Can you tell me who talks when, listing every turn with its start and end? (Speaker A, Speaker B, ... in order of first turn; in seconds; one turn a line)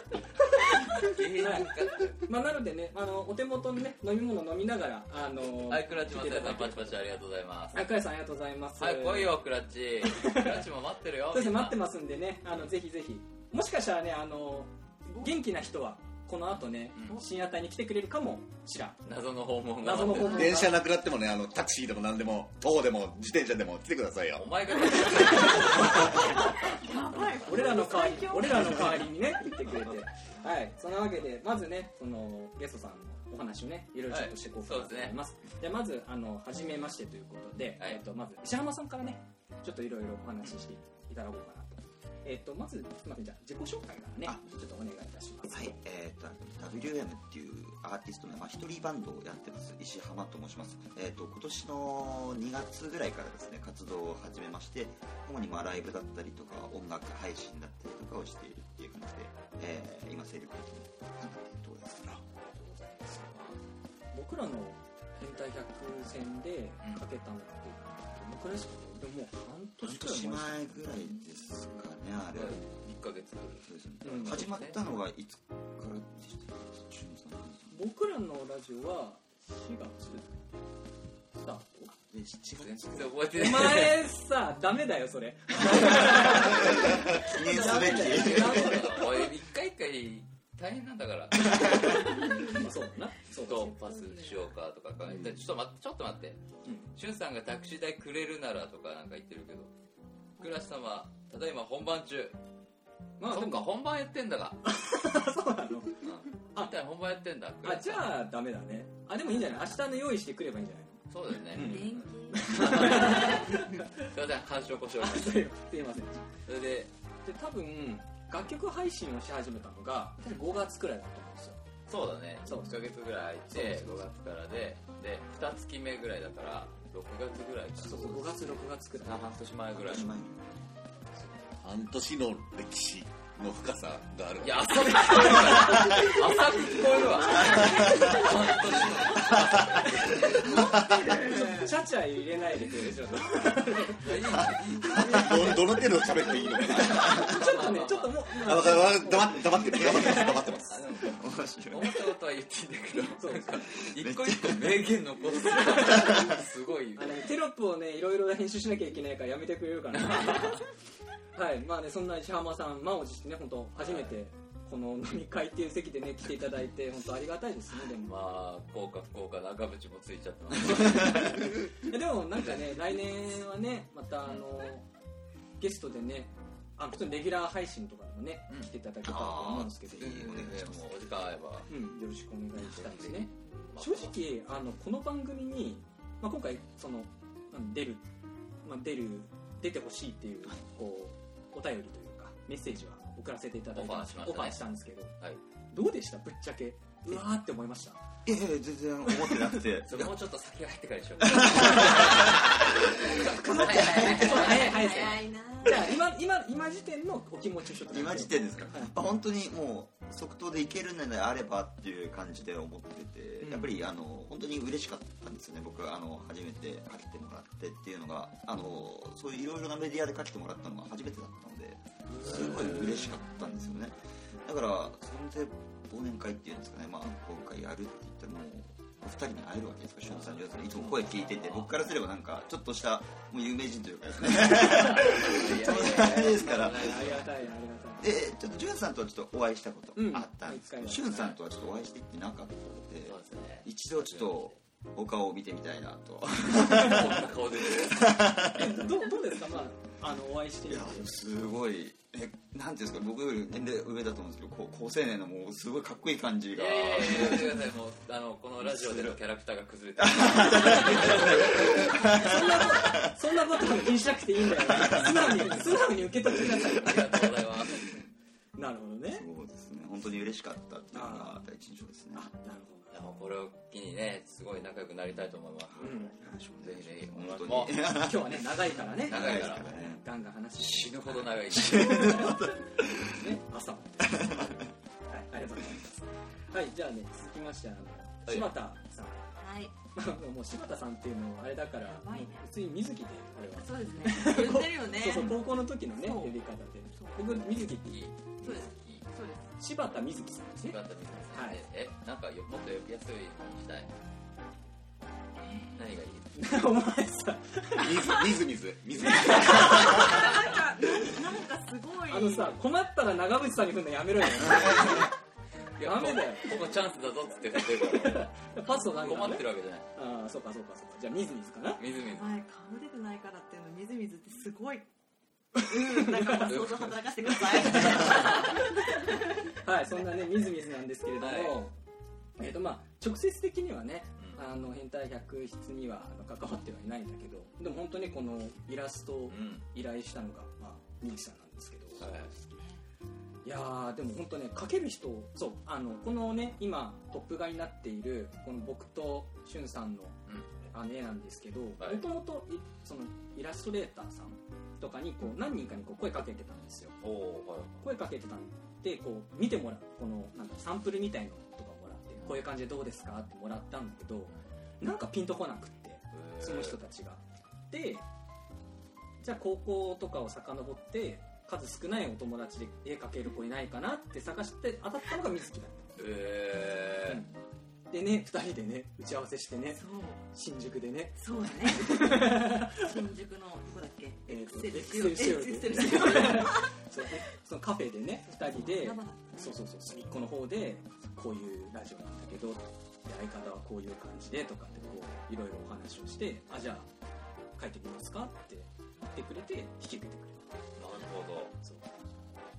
Speaker A: 1.0-2.2
Speaker B: 1.3-7.0
Speaker A: 5.7-7.9
Speaker B: 7.7-9.4
Speaker A: 8.8-11.8
Speaker B: 10.0-10.6
Speaker B: 11.3-19.0
Speaker A: 16.9-17.2
Speaker A: 19.0-20.5
Speaker B: 19.8-20.8
Speaker C: 20.2-24.5
Speaker A: 24.4-26.2
Speaker D: 25.1-28.9
Speaker B: 25.5-26.7
Speaker B: 27.4-45.7
Speaker A: 34.1-35.1
Speaker E: 45.5-62.2
Speaker B: 62.2-63.5
Speaker B: 64.1-70.9
Speaker E: 69.8-72.6
Speaker A: 72.3-74.8
Speaker E: 73.6-77.8
Speaker B: 74.1-74.4
Speaker B: 77.7-80.3
Speaker B: 81.3-81.9
Speaker E: 82.1-83.2
Speaker A: 82.6-84.1
Speaker B: 83.3-89.3
Speaker E: 85.7-88.8
Speaker A: 87.5-92.2
Speaker B: 91.5-93.8
Speaker A: 93.4-99.7
Speaker D: 93.6-94.5
Speaker B: 96.6-96.9
Speaker A: 100.4-102.4
Speaker B: 103.2-103.7
Speaker A: 103.3-104.6
Speaker B: 104.6-106.7
Speaker A: 106.0-108.1
Speaker B: 107.6-111.0
Speaker A: 111.1-115.4
Speaker B: 111.5-114.1
Speaker D: 111.5-113.5
Speaker B: 115.0-116.3
Speaker A: 116.5-116.9
Speaker B: 117.2-121.6
Speaker A: 121.9-130.1
Speaker B: 122.4-122.8
Speaker B: 123.5-124.0
Speaker B: 127.8-129.4
Speaker E: 129.8-130.7
Speaker C: 131.6-136.1
Speaker A: 134.4-140.7
Speaker D: 137.3-138.2
Speaker B: 140.4-144.3
Speaker C: 140.6-141.1
Speaker D: 140.8-141.5
Speaker E: 140.9-141.5
Speaker A: 143.8-145.3
Speaker B: 144.8-145.7
Speaker C: 145.0-147.4
Speaker B: 146.6-150.5
Speaker A: 146.7-148.2
Speaker C: 148.3-150.8
Speaker E: 149.7-150.3
Speaker A: 150.5-151.2
Speaker E: 151.0-152.0
Speaker A: 151.7-157.2
Speaker B: 153.2-153.6
Speaker E: 153.9-154.9
Speaker B: 155.6-156.3
Speaker B: 156.9-160.7
Speaker A: 159.9-160.6
Speaker B: 161.3-168.1
Speaker A: 163.8-164.1
Speaker A: 168.0-171.4
Speaker B: 170.9-174.8
Speaker B: 175.6-180.1
Speaker E: 179.0-181.0
Speaker A: 179.9-181.7
Speaker B: 181.7-188.0
Speaker A: 182.7-184.2
Speaker B: 188.6-195.1
Speaker A: 193.7-194.6
Speaker B: 195.7-198.0
Speaker E: 198.2-200.1
Speaker A: 199.8-205.0
Speaker E: 201.2-202.4
Speaker B: 201.3-202.3
Speaker B: 203.0-208.9
Speaker D: 204.0-205.9
Speaker E: 207.9-237.1
Speaker B: 213.4-213.7
Speaker A: 230.1-231.7
Speaker A: 234.5-237.5
Speaker B: 235.7-238.1
Speaker E: 238.0-249.0
Speaker B: 239.9-241.3
Speaker A: 243.0-244.6
Speaker A: 246.5-248.2
Speaker B: 248.4-251.1
Speaker E: 250.7-257.6
Speaker A: 256.5-262.0
Speaker E: 258.6-259.2
Speaker E: 260.0-263.1
Speaker B: 261.9-267.3
Speaker E: 264.5-265.8
Speaker E: 266.3-266.7
Speaker A: 266.7-267.9
Speaker B: 268.6-269.2
Speaker E: 269.1-272.3
Speaker B: 270.9-271.4
Speaker B: 272.1-272.9
Speaker A: 272.9-276.1
Speaker E: 275.8-280.0
Speaker B: 275.8-276.1
Speaker A: 276.6-277.8
Speaker B: 277.9-289.2
Speaker A: 279.0-279.8
Speaker A: 280.6-282.2
Speaker E: 281.5-283.2
Speaker E: 284.0-284.6
Speaker D: 289.4-289.7
Speaker B: 289.9-298.0
Speaker D: 291.8-292.5
Speaker D: 293.5-296.4
Speaker D: 296.9-297.4
Speaker A: 297.8-299.1
Speaker D: 298.4-299.6
Speaker B: 299.6-300.8
Speaker A: 300.6-303.9
Speaker B: 301.3-301.6
Speaker D: 305.4-305.8
Speaker A: 305.8-306.3
Speaker B: 306.3-308.3
Speaker C: 307.7-310.3
Speaker B: 309.0-310.5
Speaker D: 309.6-312.6
Speaker B: 312.1-315.1
Speaker A: 315.8-319.9
Speaker B: 315.8-316.7
Speaker B: 317.5-321.8
Speaker D: 318.8-319.2
Speaker A: 321.8-322.3
Speaker D: 322.1-324.9
Speaker D: 325.6-329.5
Speaker B: 325.7-326.6
Speaker A: 326.4-326.9
Speaker B: 327.3-328.7
Speaker A: 327.8-328.4
Speaker B: 329.6-331.7
Speaker A: 331.2-331.6
Speaker B: 332.4-342.1
Speaker A: 334.2-334.4
Speaker A: 339.3-339.6
Speaker A: 342.0-342.3
Speaker D: 342.0-342.8
Speaker B: 343.4-357.0
Speaker A: 357.0-357.8
Speaker B: 357.8-368.0
Speaker A: 362.2-362.4
Speaker A: 366.1-366.8
Speaker B: 369.2-375.9
Speaker A: 376.0-377.2
Speaker B: 377.1-377.3
Speaker B: 377.9-382.9
Speaker D: 379.7-380.2
Speaker D: 381.2-386.8
Speaker B: 384.3-396.9
Speaker D: 388.3-389.6
Speaker B: 397.6-400.5
Speaker A: 400.8-401.5
Speaker B: 401.6-402.0